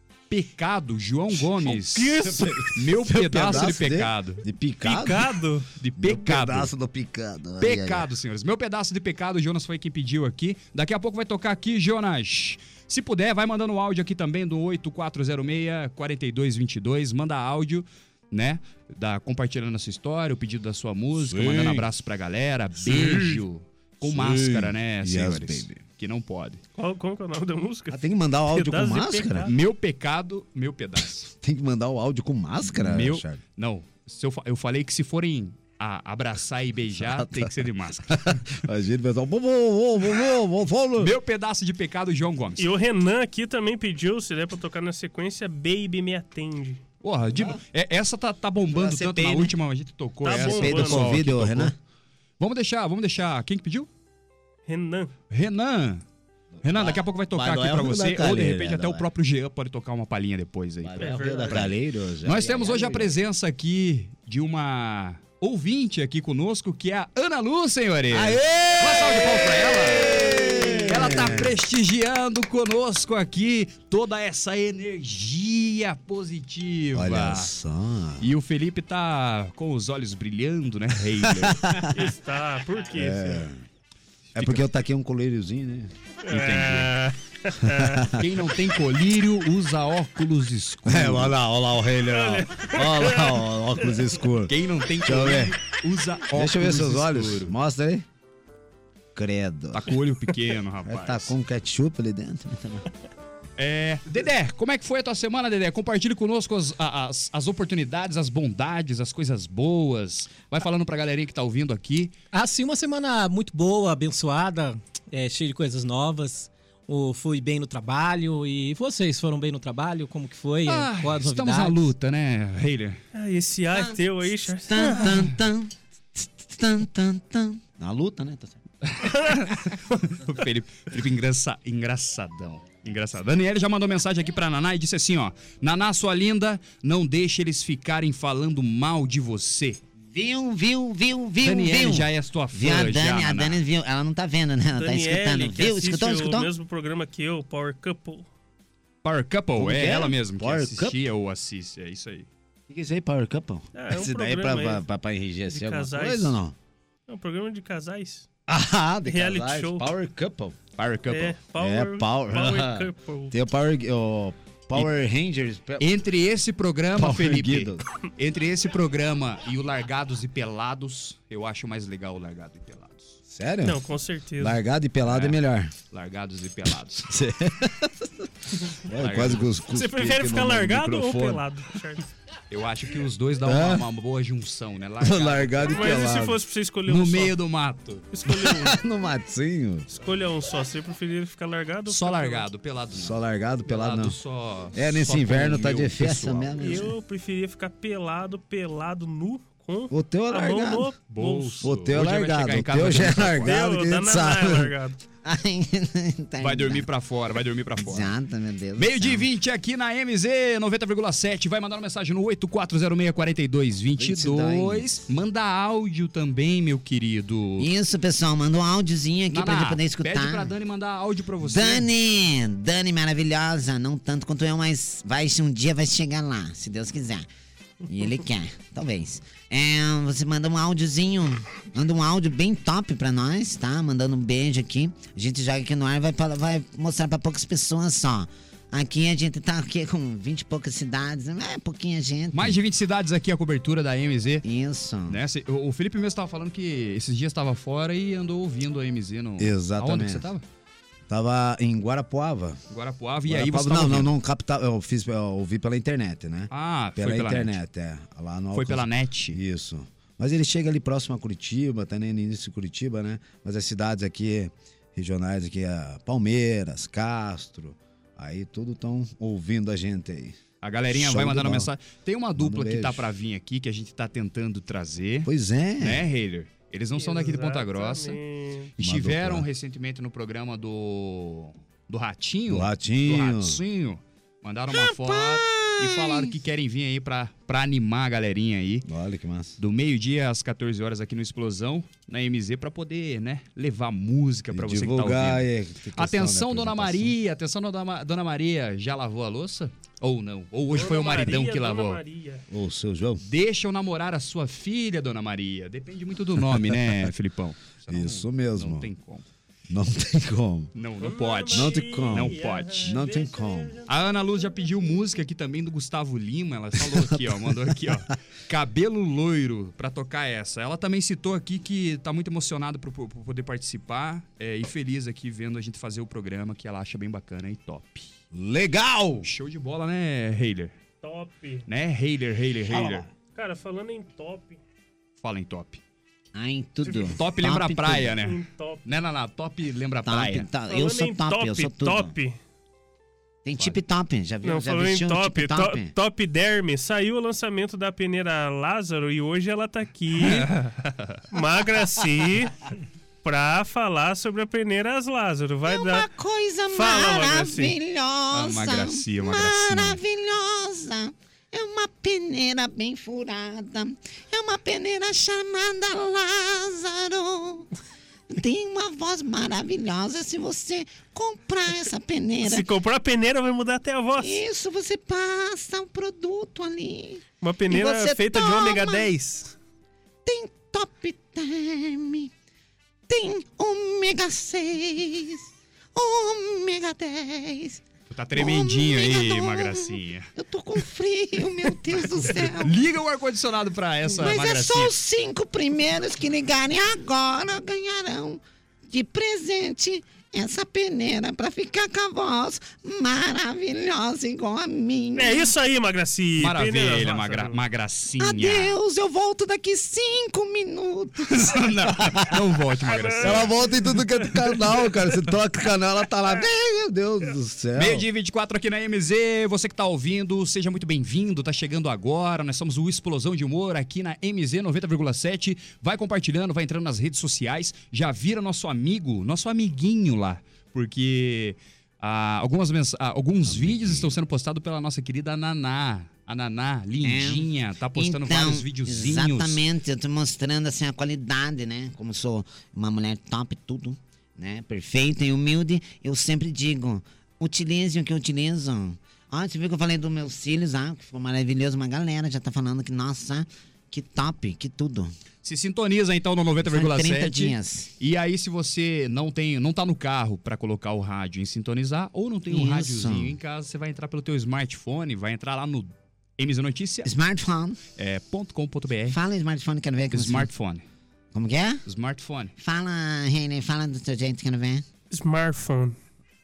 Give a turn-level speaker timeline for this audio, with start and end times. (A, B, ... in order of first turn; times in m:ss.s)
0:00.3-0:04.4 A
0:01.6-0:02.7 B
0:02.2-0:05.3 C
0:04.8-0:05.7 B
0:05.8-0:06.7 A
0:06.0-0:08.0 C
0:07.6-0:26.6 A
0:21.2-0:21.9 C
0:22.9-0:23.3 C
0:24.0-0:25.8 C
0:26.8-0:29.5 B
0:27.9-0:29.4 C
0:29.5-0:31.3 A
0:31.4-0:33.4 C
0:32.8-0:38.6 A
0:37.0-0:41.1 C
0:41.0-0:42.6 A
0:42.6-0:46.8 B
0:47.0-0:51.7 A
0:48.8-0:49.5 D
0:50.2-0:51.2 B
0:50.3-0:51.7 D
0:50.6-0:51.7 C
0:52.4-0:53.9 A
0:54.7-0:55.1 B
0:55.3-0:56.0 A
0:56.6-1:17.5 A
0:56.8-0:59.0 D
0:56.8-0:59.0 C
1:00.8-1:03.0 C
1:01.0-1:01.7 B
1:01.0-1:01.7 D
1:02.3-1:03.1 D
1:08.1-1:11.5 C
1:16.9-1:18.2 C
1:18.2-1:21.8 A
1:21.4-1:21.8 C
1:21.9-1:23.5 B
1:22.9-1:23.5 C
1:24.4-1:24.7 A
1:24.4-1:25.9 C
1:26.3-1:28.1 B
1:26.3-1:27.0 A
1:28.2-1:31.4 A
1:30.9-1:34.5 C
1:32.1-1:33.9 B
1:34.5-1:37.5 A
1:35.0-1:35.6 C
1:36.3-1:38.0 C
1:39.2-1:39.5 C
1:39.2-1:39.8 D
1:39.7-1:41.3 A
1:40.9-1:42.6 C
1:41.9-1:42.8 D
1:43.6-1:52.1 A
1:52.3-2:01.9 E
2:00.7-2:03.0 A
2:03.2-2:05.3 B
2:04.7-2:08.5 D
2:08.8-2:19.8 A
2:20.1-2:26.5 D
2:21.4-2:23.6 A
2:24.8-2:28.3 B
2:29.0-2:32.3 A
2:29.6-2:30.9 C
2:32.7-2:36.4 C
2:33.8-2:34.8 B
2:34.3-2:34.8 D
2:35.5-2:36.4 B
2:35.7-2:36.3 D
2:37.1-2:38.3 B
2:38.5-2:40.6 C
2:39.0-2:39.9 B
2:40.8-2:41.4 A
2:41.1-2:43.4 B
2:41.6-2:45.8 C
2:45.8-2:53.2 A
2:47.0-2:47.8 C
2:53.3-2:53.8 C
2:53.6-2:54.6 B
2:54.4-2:55.7 C
2:55.0-2:55.4 A
2:55.9-2:57.1 A
2:57.1-2:58.1 C
2:58.9-3:01.4 C
2:58.9-2:59.6 A
2:59.7-3:02.1 B
3:02.5-3:06.0 A
3:03.4-3:03.9 C
3:05.0-3:06.4 C
3:05.7-3:07.4 B
3:06.9-3:08.1 A
3:08.1-3:08.8 B
3:08.3-3:09.9 C
3:09.9-3:12.5 B
3:11.9-3:16.8 A
3:12.9-3:14.2 C
3:14.8-3:16.4 C
3:15.5-3:16.9 D
3:16.6-3:21.7 B
3:19.9-3:20.9 C
3:21.1-3:23.6 A
3:21.6-3:24.7 C
3:23.4-3:25.0 B
3:25.2-3:26.8 D
3:26.4-3:28.1 A
3:27.8-3:29.3 D
3:28.8-3:37.7 A
3:34.0-3:34.9 D
3:37.6-3:40.5 D
3:39.3-3:41.9 A
3:41.4-3:47.3 D
3:47.9-4:02.6 D
4:02.3-4:04.4 A
4:04.4-4:05.2 D
4:05.1-4:10.4 A
4:09.4-4:10.2 C
4:11.1-4:12.6 C
4:12.7-4:14.1 A
4:13.3-4:30.3 C
4:16.5-4:17.6 A
4:18.5-4:19.4 A
4:30.6-4:35.3 A
4:30.9-4:31.7 C
4:32.4-4:33.0 C
4:35.3-4:36.0 C
4:35.8-4:38.2 A
4:37.0-4:38.7 B
4:38.8-4:39.4 C
4:38.8-4:48.9 A
4:42.5-4:43.6 C
4:44.7-4:46.3 D
4:48.9-4:49.6 C
4:49.6-5:02.0 A
4:54.5-4:57.1 C
5:00.7-5:02.4 B
5:02.5-5:03.2 C
5:03.2-5:09.3 A
5:07.9-5:08.9 C
5:09.7-5:10.7 C
5:10.8-5:13.0 A
5:11.0-5:14.8 B
5:11.5-5:13.7 C
5:13.9-5:28.1 A
5:28.3-5:29.2 C
5:29.2-5:30.8 A
5:31.0-5:31.7 B
5:31.7-5:33.1 A
5:33.3-5:34.6 B
5:35.2-5:35.8 A
5:36.4-5:38.1 D
5:36.9-5:37.1 B
5:37.1-5:40.5 A
5:38.2-5:38.8 B
5:40.1-5:42.1 D
5:40.7-5:42.4 B
5:43.4-5:45.9 D
5:44.4-5:52.6 B
5:50.2-5:51.3 A
5:53.2-5:56.1 B
5:55.7-6:07.7 D
5:56.7-5:57.8 B
5:58.3-6:00.0 A
6:08.3-6:12.7 D
6:12.4-6:14.4 B
6:14.2-6:19.1 D
6:17.4-6:19.6 B
6:20.3-6:22.3 D
6:23.1-6:27.8 D
6:28.1-6:30.3 A
6:28.4-6:32.8 D
6:32.2-6:34.9 A
6:34.1-6:45.5 D
6:45.2-6:47.6 B
6:46.4-6:48.8 A
6:48.2-6:51.6 D
6:51.3-6:53.5 A
6:52.9-6:53.5 B
6:53.2-6:57.0 C
6:53.2-6:57.6 D
6:57.5-6:58.0 C
6:57.8-7:19.6 A
7:13.5-7:14.0 C
7:17.0-7:35.1 D
7:35.4-7:47.1 A
7:36.6-7:37.9 D
7:42.5-7:43.4 D
7:47.0-7:47.8 D
7:48.0-7:49.2 A
7:49.1-7:50.5 D
7:50.1-7:50.8 A
7:51.3-7:51.8 D
7:51.9-7:52.5 A
7:52.6-7:54.8 D
7:55.1-7:56.0 B